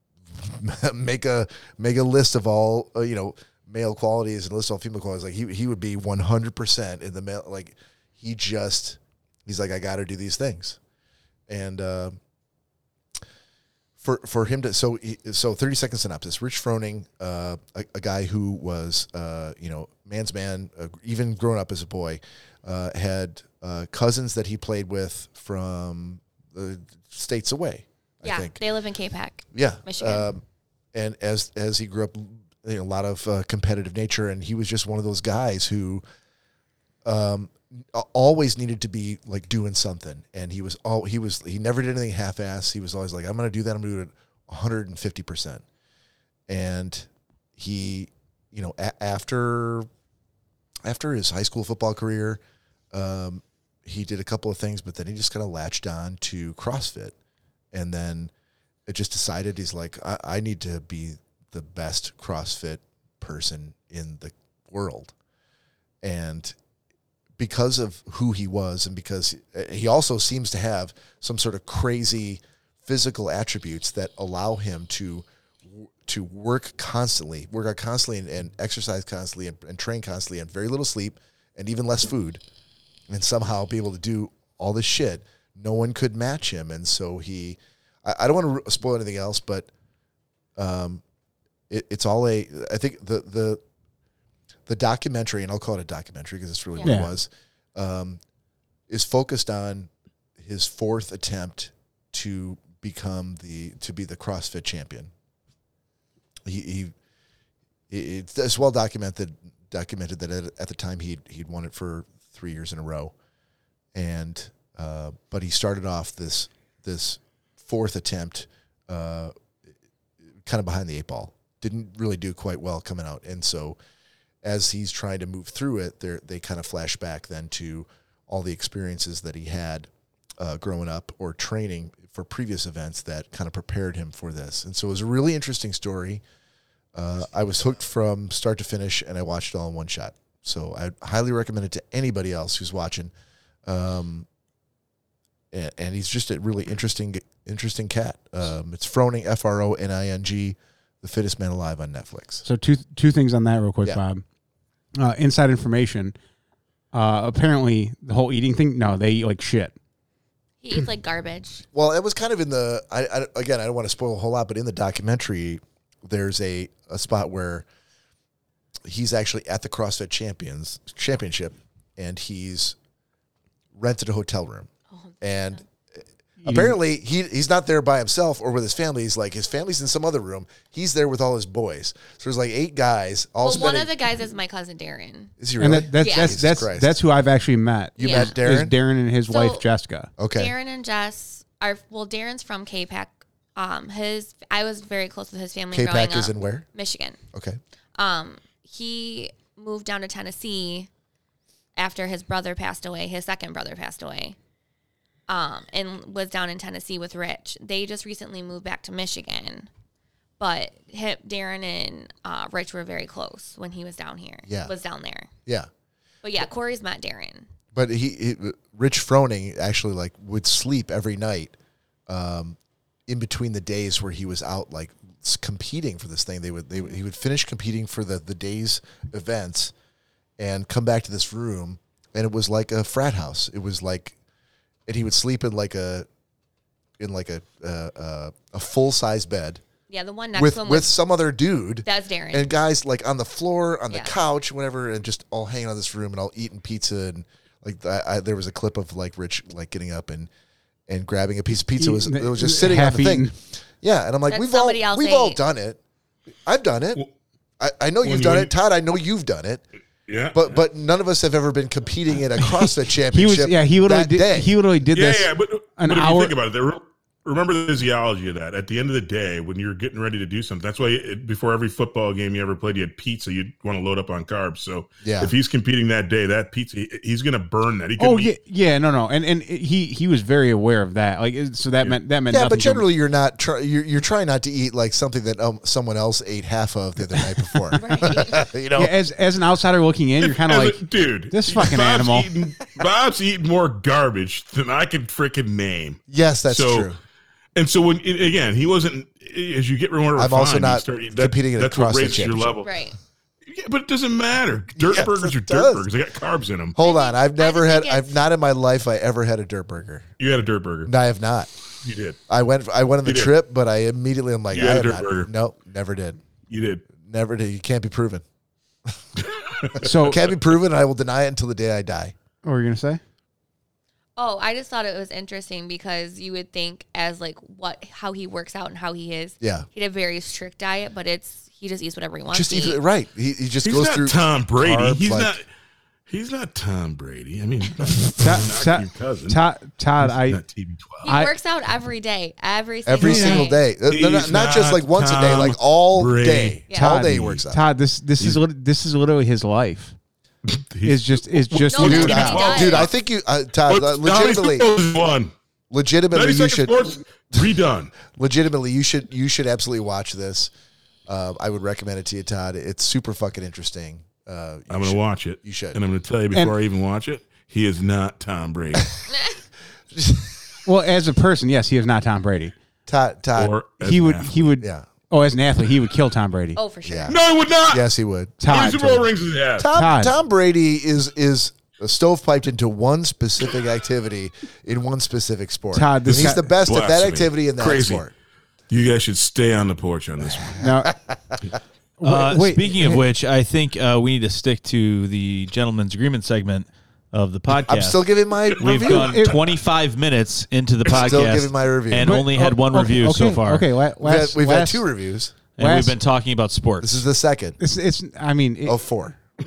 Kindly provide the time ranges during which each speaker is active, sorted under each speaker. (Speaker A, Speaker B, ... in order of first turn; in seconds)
Speaker A: 0.3-10.8, 11.5-12.2, 14.0-28.6, 29.5-30.4, 30.9-36.0, 37.0-45.6, 46.5-49.9, 50.8-52.4, 52.9-57.1, 57.7-58.3, 58.9-65.1, 66.0-66.5, 67.4-82.4, 83.1-89.7, 90.5-91.0, 91.7-93.6, 94.7-98.2, 98.9-105.1, 106.4-106.9, 107.9-113.1, 113.9-119.3, 120.4-123.8, 124.4-136.2, 136.9-143.1, 143.6-144.3, 145.5-152.4, 161.7-167.7, 168.8-172.8, 173.7-174.7, 175.2-175.7, 176.4-184.1, 185.4-187.0, 187.9-188.8, 190.2-190.5, 195.7-196.7, 197.3-197.6, 214.4-214.7, 217.7-221.6, 222.1-229.7, 230.4-234.2, 234.9-236.1, 237.0-239.6, 240.3-250.3, 250.9-255.8, 256.4-257.0, 257.6-259.6, 260.3-264.5, 275.0-275.3, 282.3-288.9, 296.1-297.0, 300.1-302.5, 304.8-305.9, 306.8-310.1, 310.9-311.5, 312.3-316.2, 316.9-318.2, 320.0-322.1, 329.4-329.7, 332.3-335.4, 342.9-347.6, 351.8-354.7, 355.7-356.8, 358.1-360.5, 361.1-365.8, 369.9-370.3, 372.9-373.5, 374.6-374.9, 376.8-379.0, 379.6-388.1, 390.8-391.4, 397.6-399.3, 400.9-402.2, 404.0-405.3, 406.8-407.6, 408.6-409.2
Speaker B: 28.2-30.3, 160.6-161.6, 174.9-175.6, 183.4-185.3, 186.0-186.3, 188.0-188.3, 189.3-189.7, 190.3-197.2, 197.9-200.9, 201.8-204.4, 205.3-209.7, 210.4-215.3, 216.2-217.5, 239.9-240.9, 241.8-242.5, 243.9-244.2, 254.3-255.4, 287.7-288.5, 302.6-302.9, 306.8-308.2, 324.1-332.8, 341.0-343.6, 351.7-352.9, 376.6-377.2
Speaker C: 96.8-97.1, 152.4-154.2, 155.0-156.1, 156.9-159.7, 176.4-176.8, 185.6-190.1, 251.8-253.3, 263.1-266.4, 278.0-282.8, 288.8-292.3, 319.8-320.2, 322.4-323.0, 338.2-340.4, 341.0-341.3, 343.0-343.4, 346.8-349.9, 350.8-352.5, 370.6-372.5, 373.8-376.6, 378.4-379.1, 379.7-380.1, 385.7-386.5, 390.6-390.9, 392.0-392.7, 398.9-399.3, 402.0-404.9, 405.6-405.9, 407.6-408.9
Speaker D: 258.0-258.5, 260.1-260.5, 264.9-278.3, 290.2-296.9, 297.5-302.9, 303.4-306.8, 310.2-310.9, 311.8-312.2, 313.0-313.3, 314.5-315.3, 316.5-316.9, 319.5-319.9, 333.6-335.5, 336.1-339.4, 340.0-341.1, 343.9-347.4, 350.5-352.9, 353.7-355.3, 356.1-357.9, 364.7-368.9, 373.4-374.5, 377.1-377.8, 378.5-379.7, 386.1-388.0, 388.7-390.6, 398.6-399.2
Speaker E: 392.0-403.7, 405.6-407.0